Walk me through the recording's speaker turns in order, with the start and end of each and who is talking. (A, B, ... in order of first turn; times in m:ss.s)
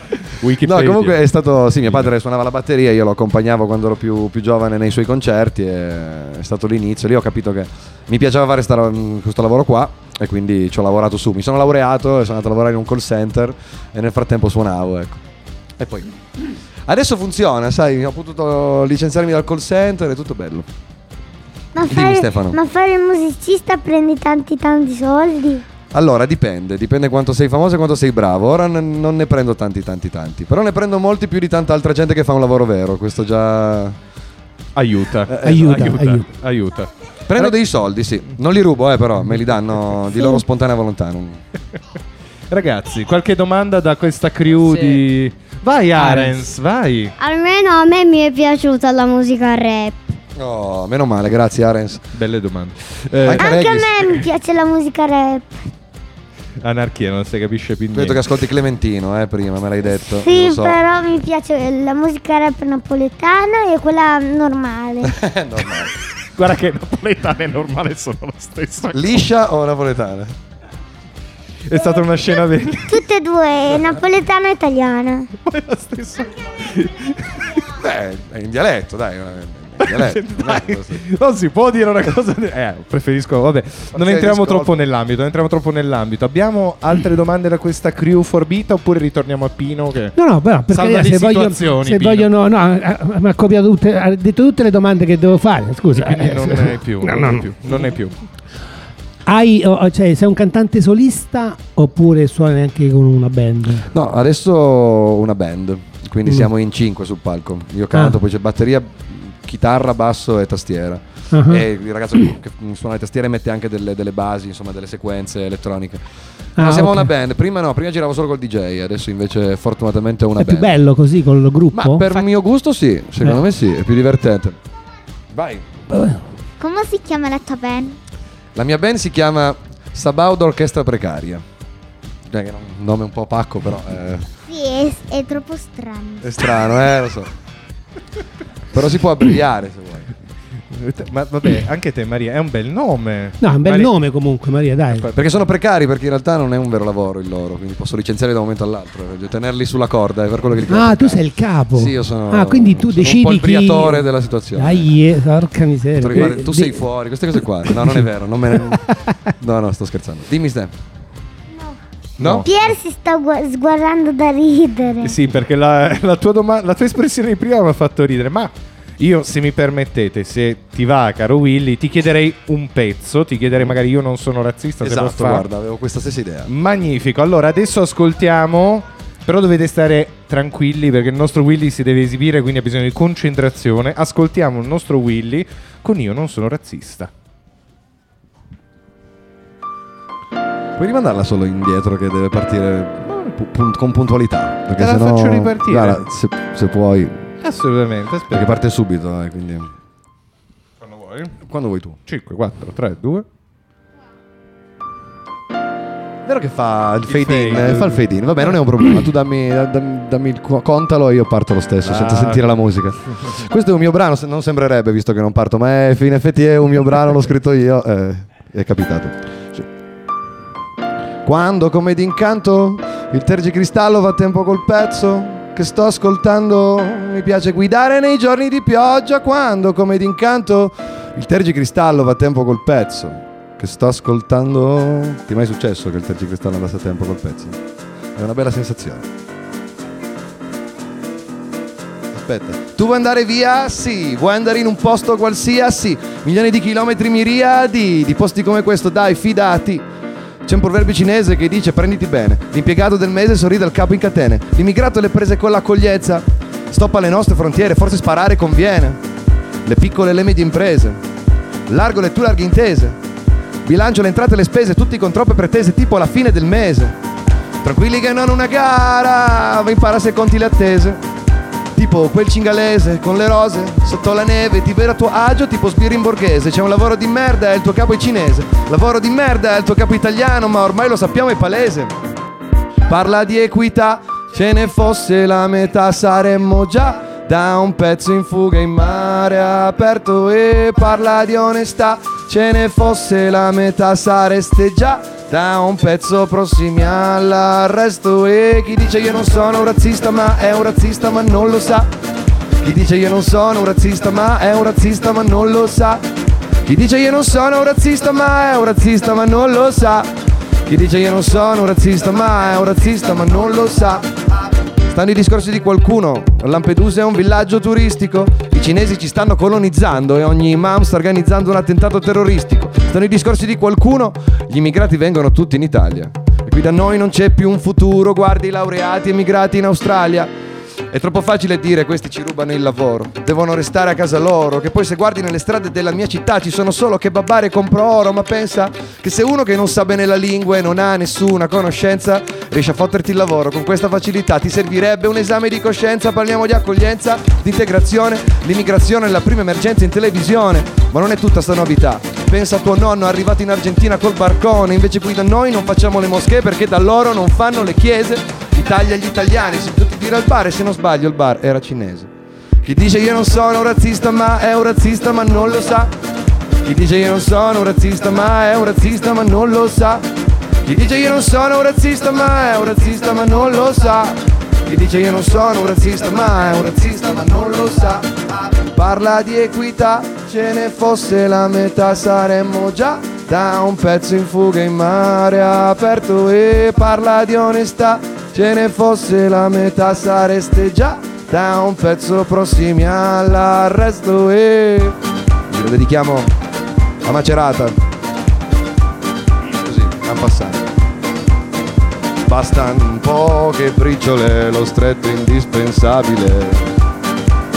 0:00.4-0:02.1 A
0:00.6-0:15.2 B
0:15.8-0:16.1 B
0:16.9-0:20.6 B
0:21.7-0:25.6 C
0:21.8-0:22.6 B
0:25.9-0:34.0 B
0:34.8-0:37.5 A
0:35.3-0:35.7 B
0:35.4-0:36.2 D
0:37.3-0:41.4 B
0:42.5-0:47.1 A
0:47.2-0:50.1 E
0:50.4-0:52.0 B
0:52.1-0:53.5 A
0:53.2-0:53.9 B
0:53.3-0:55.5 C
0:56.6-0:58.3 A
0:57.9-1:00.8 B
1:00.0-1:05.1 C
1:05.0-1:05.9 B
1:06.4-1:09.2 A
1:08.9-1:10.3 B
1:11.7-1:13.0 A
1:12.9-1:15.3 C
1:15.4-1:17.6 A
1:17.7-1:21.0 B
1:19.8-1:30.1 A
1:23.9-1:24.7 B
1:30.1-1:37.5 D
1:30.7-1:32.3 A
1:36.0-1:38.1 A
1:39.2-1:43.9 D
1:43.9-1:56.0 B
1:47.9-1:48.2 D
1:51.3-1:51.6 D
1:56.6-1:57.1 D
1:56.6-2:00.8 B
2:00.4-2:02.0 D
2:01.7-2:04.6 B
2:05.3-2:05.6 B
2:05.9-2:06.2 D
2:06.6-2:08.0 C
2:08.6-2:11.4 B
2:12.3-2:14.3 B
2:14.5-2:16.4 C
2:16.2-2:17.3 B
2:18.7-2:20.1 B
2:20.7-2:23.9 A
2:23.4-2:25.1 D
2:24.9-2:25.2 A
2:25.1-2:34.9 B
2:30.7-2:38.0 D
2:36.0-2:40.7 B
2:42.2-2:42.5 A
2:42.2-2:42.4 B
2:42.3-2:45.1 C
2:45.0-2:55.4 A
2:54.8-2:56.5 B
2:56.5-3:07.1 A
3:10.8-3:17.3 B
3:14.8-3:16.0 A
3:17.4-3:18.6 A
3:18.3-3:19.7 B
3:20.8-3:21.3 A
3:21.4-3:22.0 B
3:22.1-3:23.2 A
3:26.2-3:39.6 B
3:27.1-3:28.0 A
3:31.8-3:32.4 A
3:41.2-3:57.6 B
3:58.2-3:59.1 B
4:02.1-4:09.8 B
4:10.4-4:19.0 B
4:19.6-4:21.0 B
4:21.7-4:23.0 B
4:23.6-4:27.0 B
4:27.6-4:31.0 B
4:31.7-4:41.9 B
4:42.9-5:01.9 B
5:02.6-5:06.0 B
5:06.6-5:10.1 B
5:10.6-5:14.1 B
5:14.8-5:30.3 B
5:30.9-6:02.1 B
6:02.6-6:05.9 B
6:06.6-6:10.1 B
6:10.6-6:35.0 B
6:35.5-6:36.3 B
6:37.0-6:37.8 B
6:39.6-6:40.7 B
6:42.2-6:46.7 B